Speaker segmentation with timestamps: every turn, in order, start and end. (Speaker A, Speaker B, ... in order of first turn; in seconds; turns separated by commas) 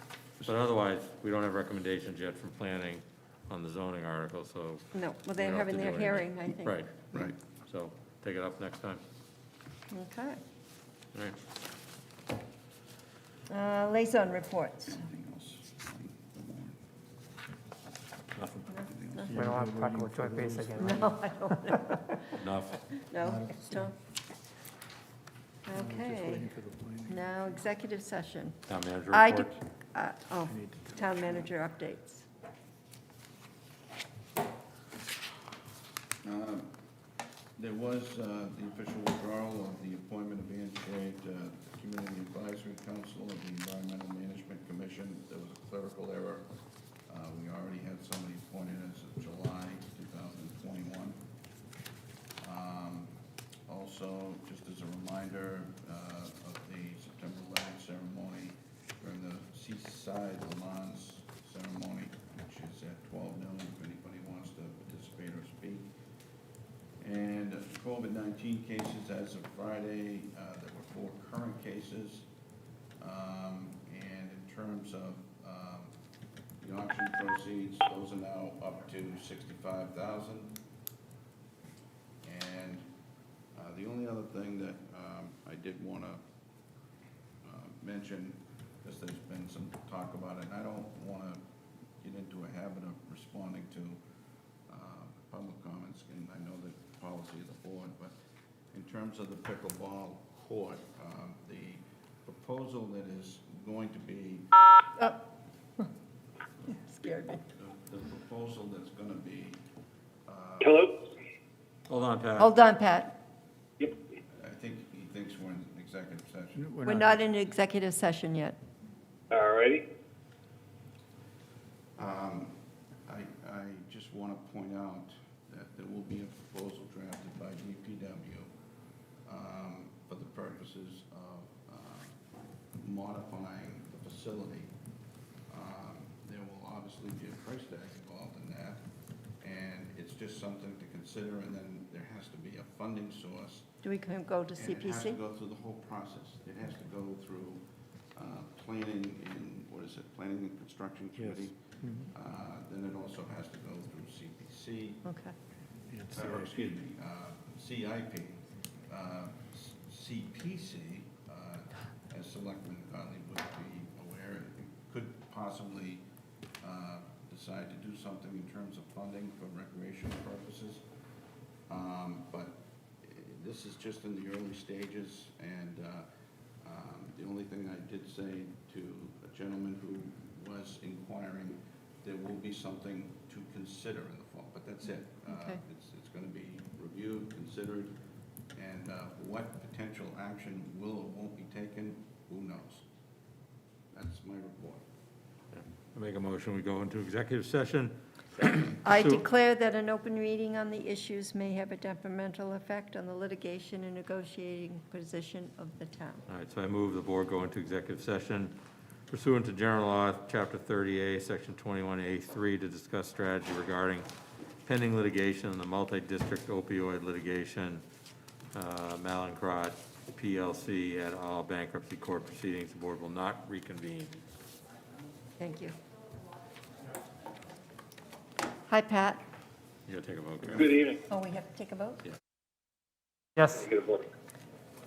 Speaker A: 0.4-9.0, Speaker B: 4.9-6.8, Speaker B: 9.9-10.4, Speaker B: 13.5-15.0, Speaker C: 14.9-16.8, Speaker A: 18.4-18.6, Speaker C: 18.7-19.3, Speaker B: 18.7-19.4, Speaker D: 19.3-21.9, Speaker E: 19.5-20.6, Speaker B: 20.8-22.3, Speaker A: 22.4-22.9, Speaker B: 23.0-23.9, Speaker B: 25.6-26.5, Speaker E: 25.8-27.3, Speaker B: 27.1-28.6, Speaker A: 28.7-29.6, Speaker B: 29.1-32.2, Speaker E: 30.7-31.4, Speaker C: 36.2-36.7, Speaker C: 37.6-46.5, Speaker C: 47.1-51.2, Speaker C: 52.4-53.1, Speaker C: 53.7-65.9, Speaker C: 67.0-72.3, Speaker C: 73.0-75.9, Speaker C: 76.6-80.6, Speaker C: 82.2-82.9, Speaker C: 83.5-86.2, Speaker C: 87.4-91.4, Speaker C: 92.0-94.0, Speaker C: 94.7-98.1, Speaker C: 98.7-104.5, Speaker B: 106.7-107.4, Speaker C: 107.5-109.6, Speaker C: 110.2-110.9, Speaker F: 110.6-110.9, Speaker A: 111.9-112.5, Speaker B: 112.4-113.2, Speaker C: 114.3-116.7, Speaker E: 116.6-117.1, Speaker B: 116.8-118.6, Speaker F: 119.3-119.8, Speaker C: 122.0-128.5, Speaker C: 129.2-132.1, Speaker C: 132.8-134.7, Speaker C: 135.5-138.8, Speaker C: 139.4-143.7, Speaker B: 143.8-145.2, Speaker C: 144.5-147.6, Speaker C: 148.1-155.0, Speaker E: 151.2-152.0, Speaker B: 155.0-155.3, Speaker E: 155.9-156.3, Speaker C: 156.1-166.0, Speaker C: 166.6-170.8, Speaker C: 171.7-176.1, Speaker C: 176.6-187.9, Speaker B: 185.3-185.6, Speaker C: 188.5-192.8, Speaker C: 193.9-194.8, Speaker A: 195.5-199.2, Speaker B: 198.8-206.2, Speaker A: 206.3-208.5, Speaker A: 209.1-214.1, Speaker A: 214.6-217.8, Speaker A: 218.5-224.1, Speaker B: 225.4-225.8, Speaker B: 228.7-229.2, Speaker A: 229.8-230.8, Speaker F: 230.6-231.0, Speaker B: 231.1-232.0, Speaker F: 233.5-234.1